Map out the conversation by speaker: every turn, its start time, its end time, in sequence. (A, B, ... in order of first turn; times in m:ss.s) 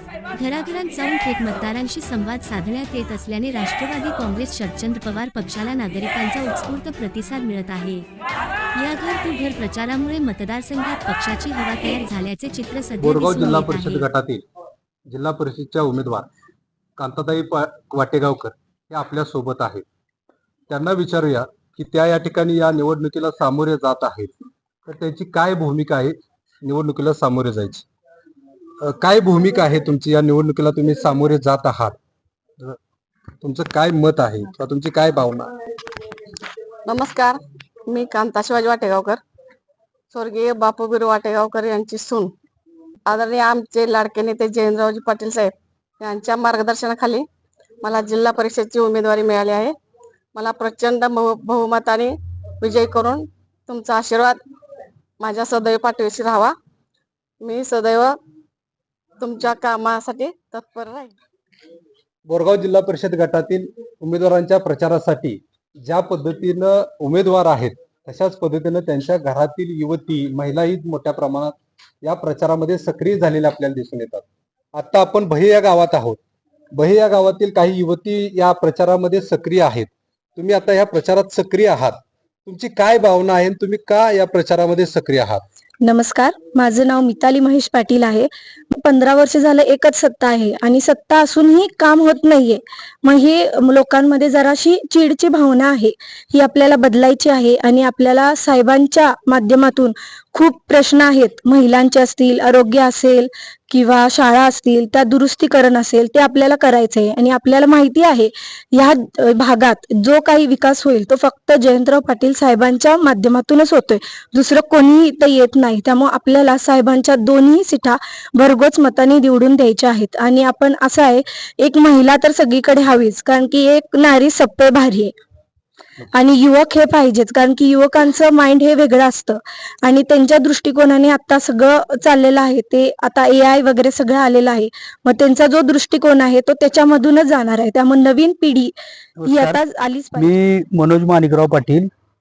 0:00.4-0:08.1 A
0:08.8-0:14.1 A
0:13.0-0:14.4 B
0:15.1-0:16.3 B
0:17.0-0:19.8 B
0:20.7-0:24.3 B
0:24.9-0:27.8 B
0:28.8-0:32.0 B
0:33.4-0:35.5 B
0:36.9-0:39.2 C
0:40.1-0:42.3 C
0:43.1-0:47.3 C
0:47.8-0:49.8 C
0:50.4-0:54.4 C
0:55.2-0:56.6 C
0:57.4-0:58.2 C
0:59.2-1:01.1 C
1:02.3-1:16.2 B
1:16.7-1:25.4 B
1:25.8-2:05.1 D
2:06.1-2:20.3 D
2:19.2-2:19.6 E
2:20.2-2:21.9 E